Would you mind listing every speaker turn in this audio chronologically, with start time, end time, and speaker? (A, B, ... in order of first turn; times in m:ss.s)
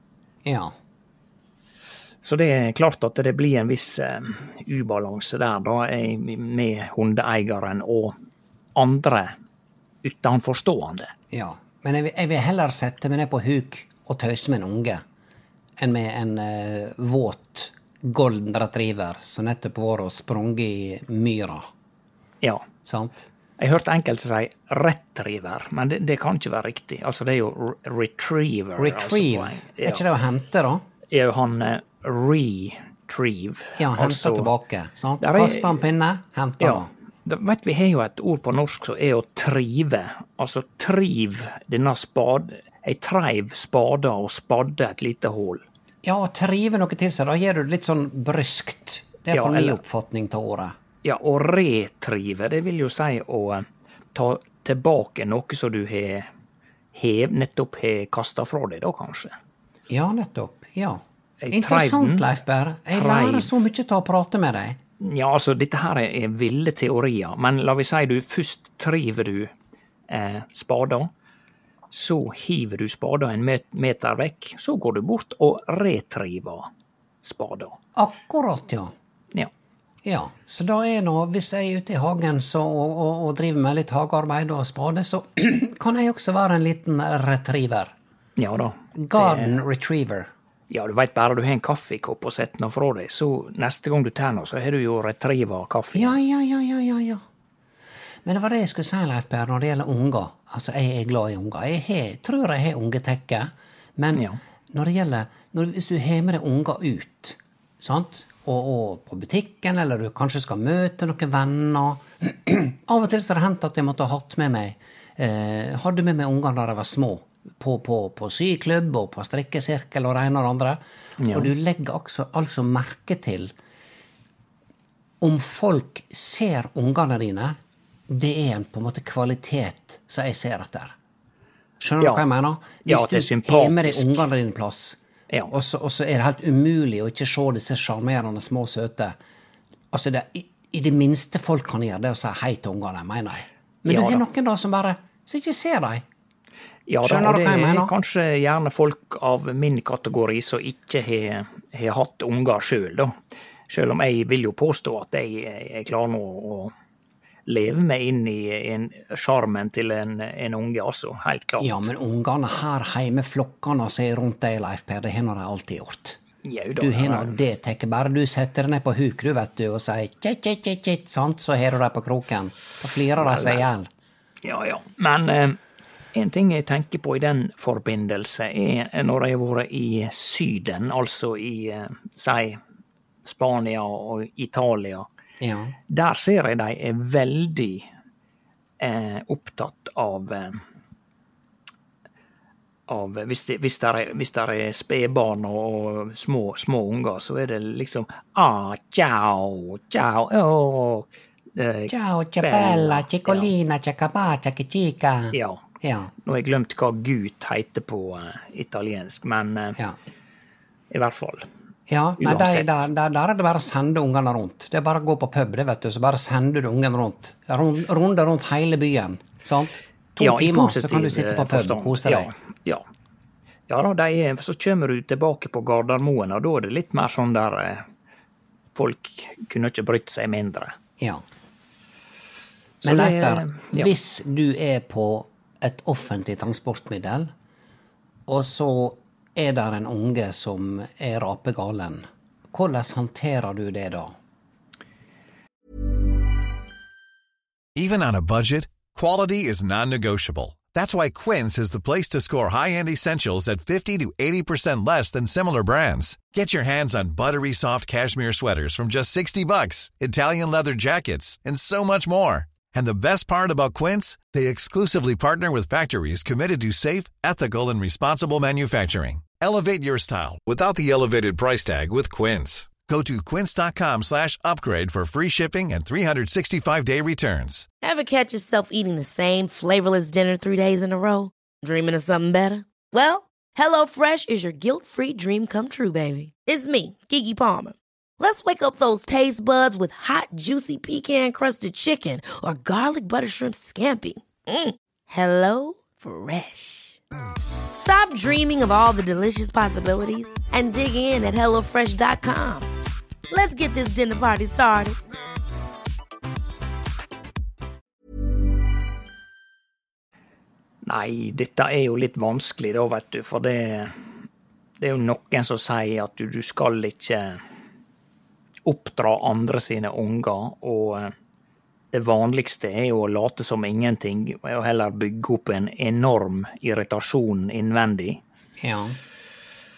0:00.4-0:00.8 A
0:02.2-0:08.2 B
0:08.8-0:09.4 B
0:10.0-0:11.1 B
0:11.3-0:15.0 A
0:15.8-0:21.7 A
0:22.8-0:23.3 A
0:23.6-0:30.0 B
0:28.8-0:30.8 A
0:31.1-0:34.5 B
0:33.8-0:36.9 A
0:35.2-0:35.8 B
0:36.6-0:45.6 B
0:46.0-0:50.8 A
0:49.3-0:49.8 B
0:51.0-0:56.3 B
0:57.0-0:59.4 B
0:59.9-1:04.8 A
1:01.4-1:02.3 B
1:02.9-1:03.5 B
1:05.0-1:09.5 B
1:10.1-1:11.1 B
1:11.9-1:16.7 B
1:17.2-1:17.8 B
1:18.0-1:18.9 A
1:20.0-1:27.9 A
1:28.4-1:29.6 B
1:29.0-1:30.3 A
1:30.7-1:36.2 B
1:35.9-1:37.2 A
1:38.2-2:03.5 A
2:01.2-2:01.5 B
2:05.2-2:07.6 A
2:08.1-2:11.0 A
2:11.8-2:15.0 A
2:12.8-2:14.3 B
2:15.5-2:19.2 A
2:19.9-2:26.0 A
2:23.9-2:24.2 B
2:26.9-2:33.1 B
2:27.0-2:27.9 A
2:33.7-2:36.7 B
2:37.5-2:41.9 B
2:41.6-2:46.2 A
2:46.4-2:47.4 B
2:46.8-2:53.9 A
2:53.2-2:53.7 B
2:54.4-2:55.6 B
2:56.1-3:02.6 B
3:03.2-3:05.1 B
3:05.4-3:05.8 A
3:05.9-3:07.9 B
3:08.8-3:10.6 B
3:12.9-3:23.5 B
3:21.9-3:26.1 A
3:25.3-3:25.6 B
3:26.2-3:29.8 B
3:30.9-3:31.5 B
3:31.9-3:42.3 A
3:32.2-3:32.8 B
3:40.2-3:42.8 B
3:43.7-3:47.8 B
3:48.7-3:50.8 B
3:52.8-3:53.9 B
3:52.8-3:57.3 A
3:58.3-4:04.2 A
4:07.8-4:37.7 C
4:37.8-4:57.0 D
4:57.8-5:02.7 D
5:03.3-5:05.0 D
5:10.8-5:14.0 B
5:14.8-5:17.4 B
5:18.6-5:21.1 B
5:21.9-5:28.2 B
5:28.6-5:29.0 A